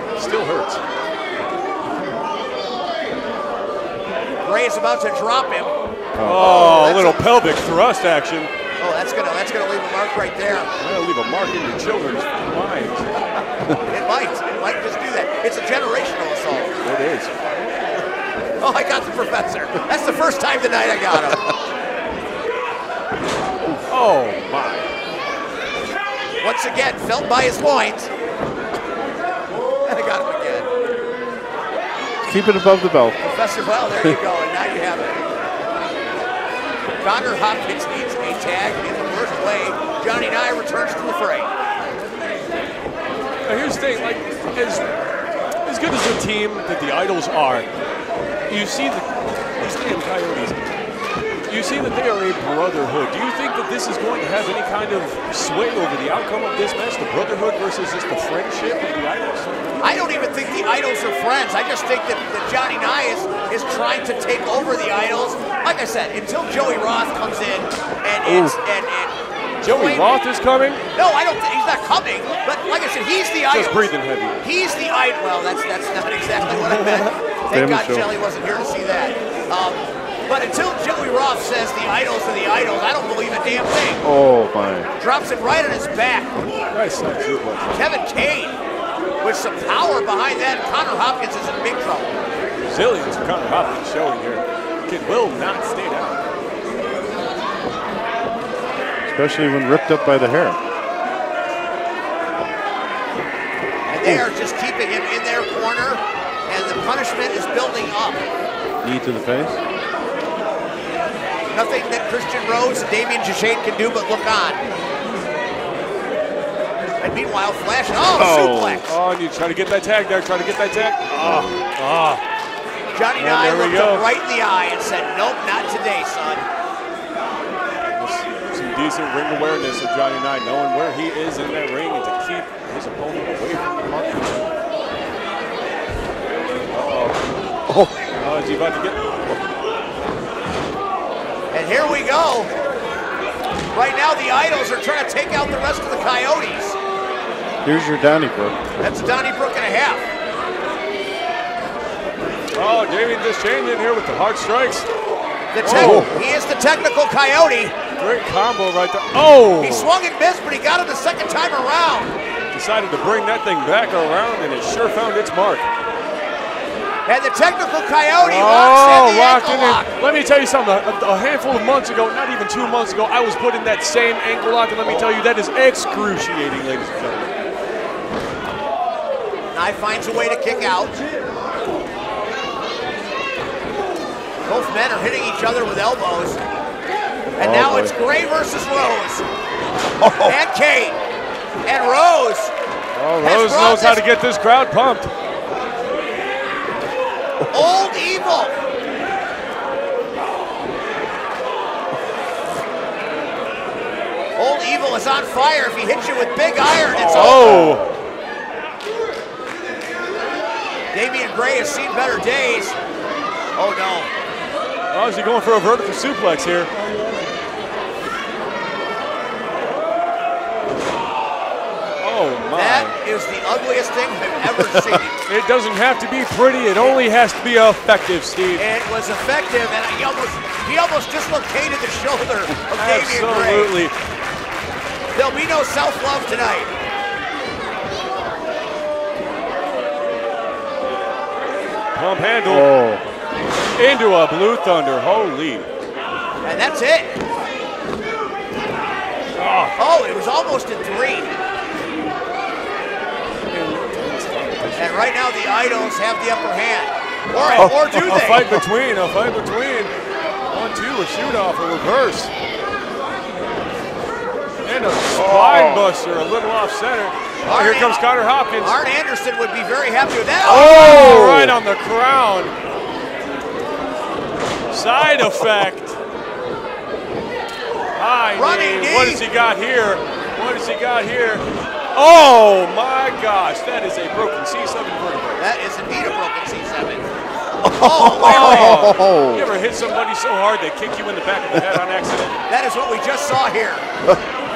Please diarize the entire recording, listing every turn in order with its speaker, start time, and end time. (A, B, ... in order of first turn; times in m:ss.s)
0:00.2-0:00.8 A
0:04.4-0:05.7 B
0:06.2-0:06.8 C
0:06.2-0:08.5 A
0:06.4-0:07.2 B
0:08.8-0:10.7 B
0:10.8-0:13.1 A
0:13.7-0:16.8 B
0:16.8-0:17.5 A
0:18.6-0:21.5 B
0:23.9-0:24.9 A
0:26.4-0:28.1 B
0:29.8-0:30.7 B
0:32.2-0:33.4 C
0:33.3-0:35.2 B
0:37.0-0:41.5 B
0:43.4-0:44.8 A
0:45.6-0:47.7 A
0:48.5-0:50.6 A
0:51.5-0:59.6 A
0:59.8-1:10.1 B
1:08.2-1:08.6 A
1:09.6-1:10.8 A
1:10.9-1:24.0 B
1:13.5-1:14.4 A
1:16.4-1:17.1 A
1:17.5-1:18.1 C
1:24.0-1:24.9 C
1:25.0-1:26.3 B
1:26.7-1:27.8 A
1:27.7-1:28.6 B
1:29.2-1:32.1 B
1:32.7-1:36.2 A
1:39.1-1:40.6 C
1:43.9-1:48.2 B
1:48.8-1:49.6 C
1:51.5-1:54.6 B
1:57.0-1:58.9 B
1:58.1-1:58.9 C
1:58.9-2:02.2 A
2:01.1-2:01.6 C
2:02.9-2:06.5 B
2:03.2-2:04.1 A
2:07.9-2:14.4 A
2:16.7-2:17.2 A
2:18.2-2:19.0 A
2:21.5-2:22.5 B
2:23.7-2:26.8 B
2:27.6-2:28.6 C
2:28.8-2:30.1 B
2:32.5-2:34.9 A
2:35.5-2:37.8 B
2:35.6-2:36.1 A
2:35.6-2:36.1 C
2:38.0-2:39.9 A
2:39.6-2:42.2 B
2:42.5-2:45.7 A
2:47.1-2:49.9 B
2:48.2-2:57.4 A
2:59.5-3:01.0 B
3:04.5-3:06.4 B
3:07.4-3:07.9 C
3:07.4-3:09.2 B
3:10.0-3:10.4 C
3:10.2-3:11.0 B
3:11.7-3:12.5 B
3:13.0-3:15.1 A
3:13.2-3:14.0 B
3:17.5-3:18.6 B
3:24.4-3:27.6 B
3:26.9-3:27.9 A
3:27.4-3:27.8 C
3:30.9-3:32.8 B
3:33.6-3:34.1 B
3:34.9-3:36.7 A
3:42.0-3:42.9 A
3:42.5-3:45.2 B
3:45.3-3:48.7 A
3:48.6-3:53.8 B
3:52.8-3:54.0 A
3:55.1-3:56.7 B
4:02.0-4:02.7 A
4:02.5-4:03.0 C
4:03.8-4:05.7 A
4:06.4-4:07.2 B
4:09.4-4:09.8 A
4:09.8-4:11.3 B
4:13.5-4:15.1 A
4:14.8-4:18.5 B
4:17.3-4:19.9 A
4:17.6-4:18.5 C
4:20.5-4:22.3 A
4:24.6-4:28.8 A
4:25.2-4:25.9 C
4:27.4-4:28.0 B
4:28.6-4:31.0 B
4:30.4-4:32.5 A
4:30.7-4:31.6 C
4:34.7-4:36.0 A
4:38.0-4:45.4 A
4:38.3-4:39.2 B
4:45.4-4:47.1 B
4:47.6-4:48.9 B
4:47.6-4:49.5 C
4:48.2-4:52.4 A
4:52.5-4:53.9 B